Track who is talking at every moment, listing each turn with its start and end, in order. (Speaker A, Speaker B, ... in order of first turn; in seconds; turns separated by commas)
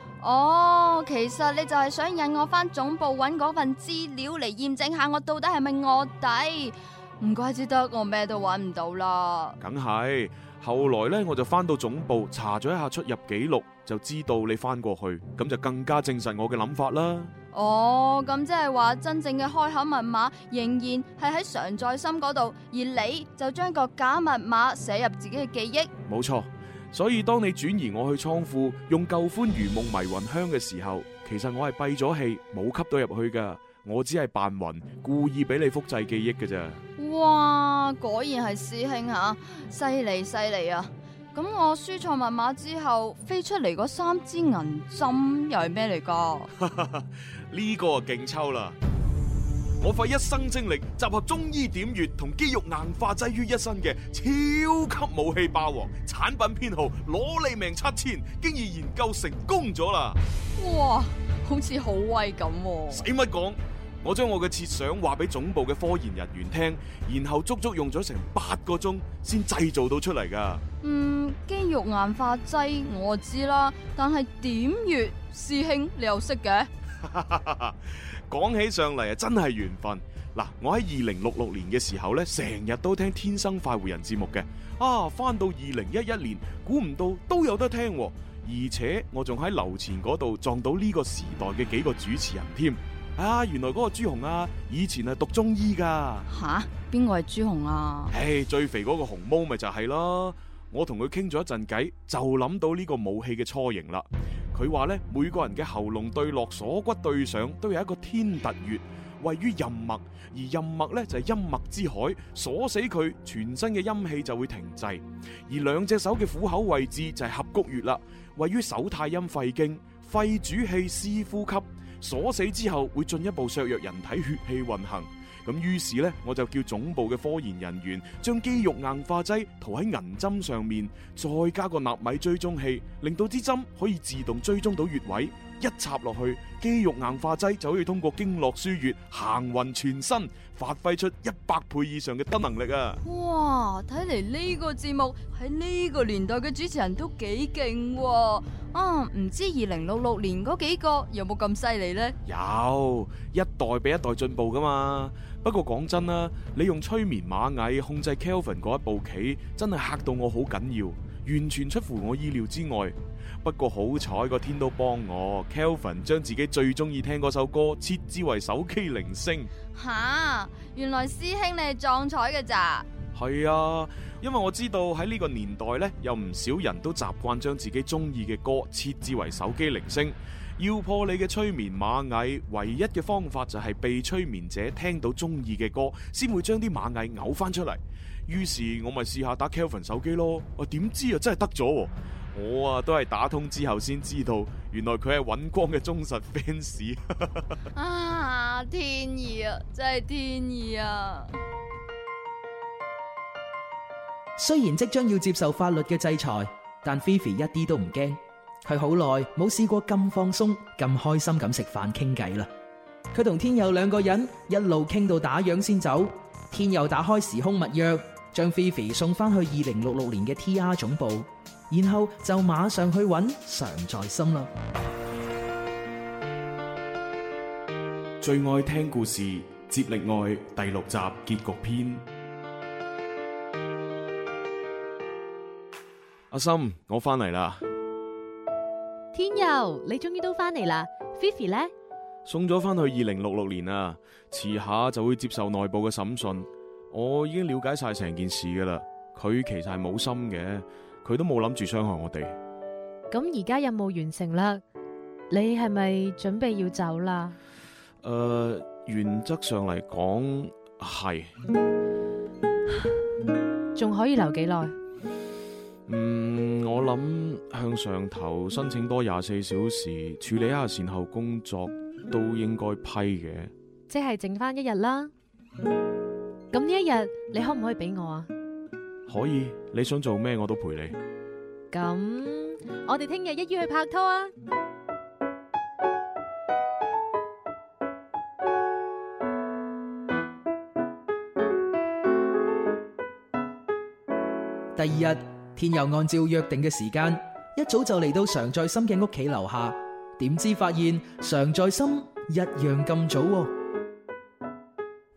Speaker A: 0.2-9.6, Speaker B: 9.6-17.3, Speaker A: 17.5-25.9, Speaker B: 26.1-36.8, Speaker A: 37.0-46.5, Speaker B: 46.5-48.8, Speaker B: 49.8-60.2, Speaker A: 60.6-63.0, Speaker B: 62.9-70.6, Speaker A: 70.8-76.7, Speaker B: 77.0-96.2, Speaker A: 96.3-98.1, Speaker B: 98.1-143.0, Speaker A: 143.0-152.2, Speaker B: 152.2-169.5, Speaker A: 169.7-172.9, Speaker B: 173.1-197.4, Speaker A: 197.7-201.3, Speaker C: 204.4-212.5, Speaker C: 213.1-224.5, Speaker B: 228.2-232.0, Speaker B: 236.3-237.6, Speaker D: 239.1-241.7, Speaker B: 242.2-252.3, Speaker D: 253.1-254.6, Speaker D: 255.3-257.3, Speaker B: 258.0-261.3, Speaker D: 263.7-264.7, Speaker B: 265.9-273.5, Speaker D: 273.9-275.1, Speaker D: 276.5-278.3, Speaker B: 279.1-280.9, Speaker D: 281.7-284.3, Speaker C: 294.8-303.5